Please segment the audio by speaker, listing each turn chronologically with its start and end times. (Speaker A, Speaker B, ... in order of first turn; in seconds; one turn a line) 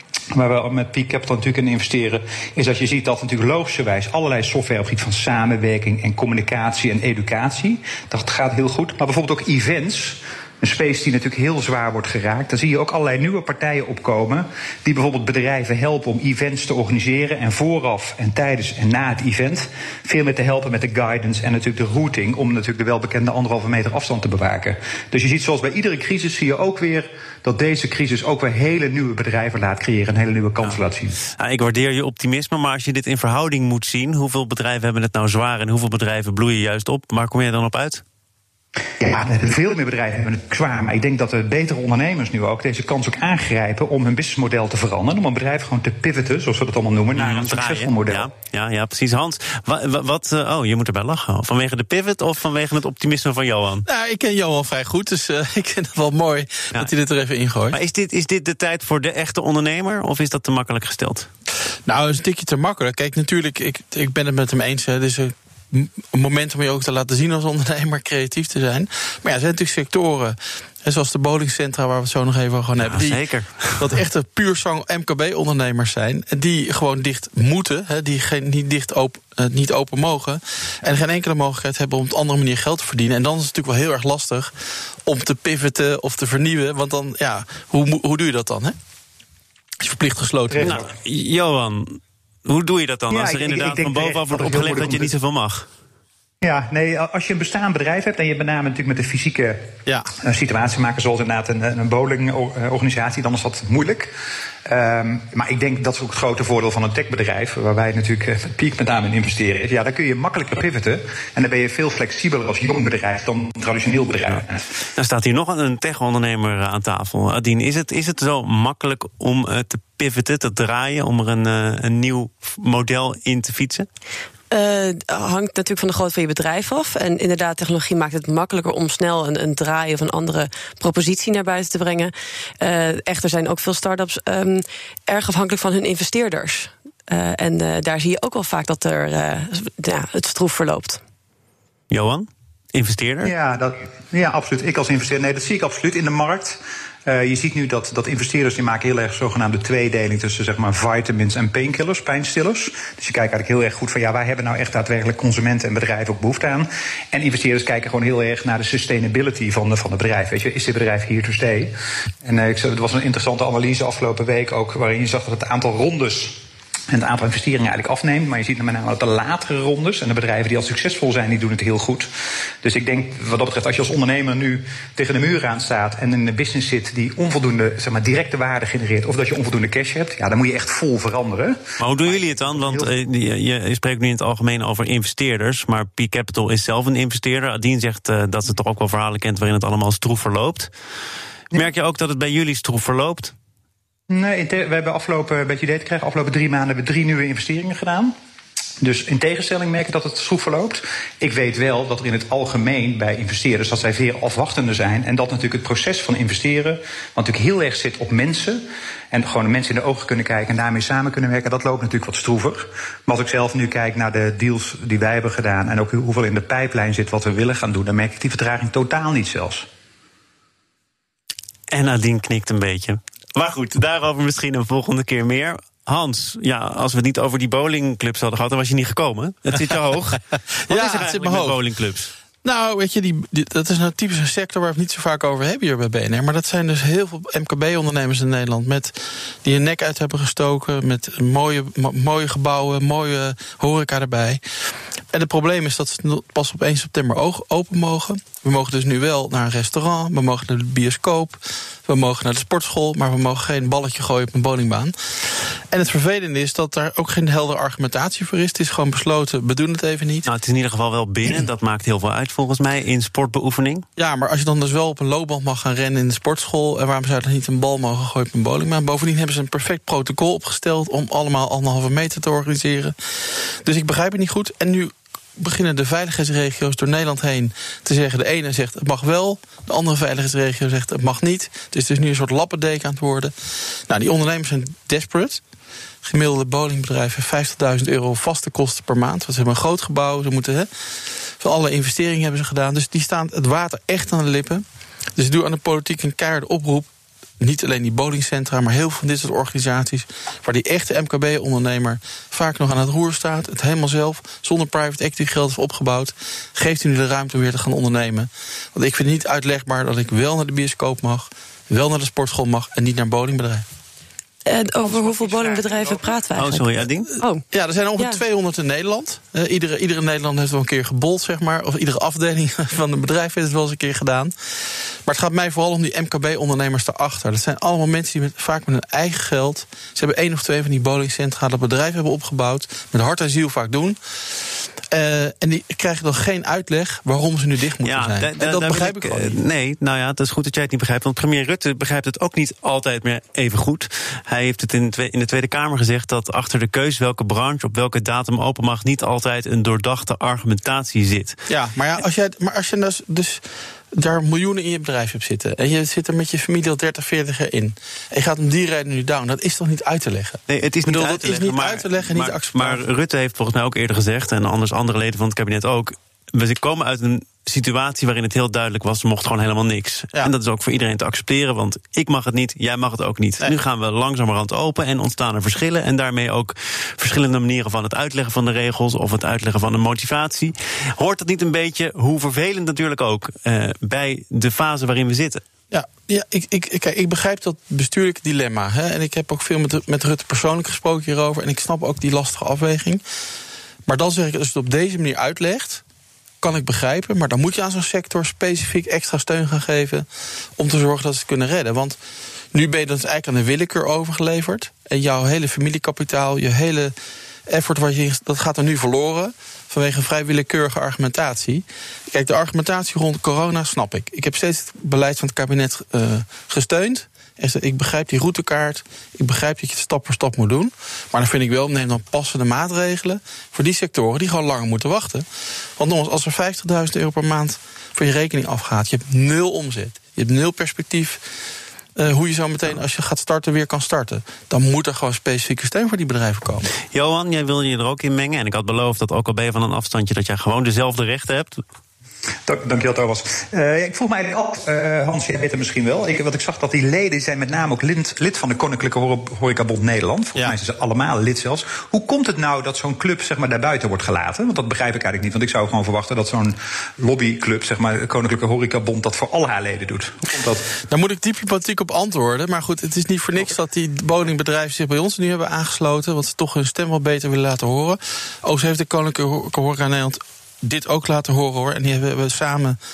Speaker A: 0.3-31.2
Speaker B: 31.3-38.0
Speaker A: 39.0-48.3
Speaker B: 47.1-53.8
Speaker C: 53.9-57.8
Speaker B: 57.7-61.3
Speaker C: 61.9-84.5
Speaker B: 72.8-73.9
Speaker C: 85.0-88.8
Speaker C: 89.8-90.8
Speaker A: 90.5-90.8
Speaker B: 90.6-95.7
Speaker A: 93.1-95.1
Speaker A: 96.4-104.1
Speaker A: 104.7-114.6
Speaker B: 115.0-123.9
Speaker D: 124.5-141.0
Speaker B: 141.9-143.3
Speaker A: 143.2-172.1
Speaker A: 172.6-182.9
Speaker B: 181.8-190.7
Speaker B: 191.5-193.3
Speaker A: 194.1-198.1
Speaker A: 198.8-219.7
Speaker B: 221.7-232.1
Speaker C: 230.7-231.6
Speaker C: 232.4-244.4
Speaker C: 245.1-260.3
Speaker B: 260.2-263.8
Speaker C: 264.0-283.3
Speaker C: 283.9-285.4
Speaker C: 286.0-290.7
Speaker C: 291.4-294.6
Speaker C: 295.1-296.9
Speaker C: 297.4-313.6
Speaker D: 314.4-317.4
Speaker A: 314.8-316.1
Speaker B: 316.4-317.1
Speaker C: 317.5-324.3
Speaker C: 325.1-339.4
Speaker B: 337.8-351.4
Speaker C: 351.5-362.8
Speaker B: 360.5-385.4
Speaker C: 385.7-393.0
Speaker C: 393.9-395.8
Speaker C: 396.4-400.1
Speaker C: 400.6-402.0
Speaker C: 402.5-406.9
Speaker C: 407.5-425.2
Speaker C: 425.8-431.2
Speaker C: 431.9-436.7
Speaker B: 436.9-441.6
Speaker A: 442.5-460.7
Speaker C: 460.8-472.8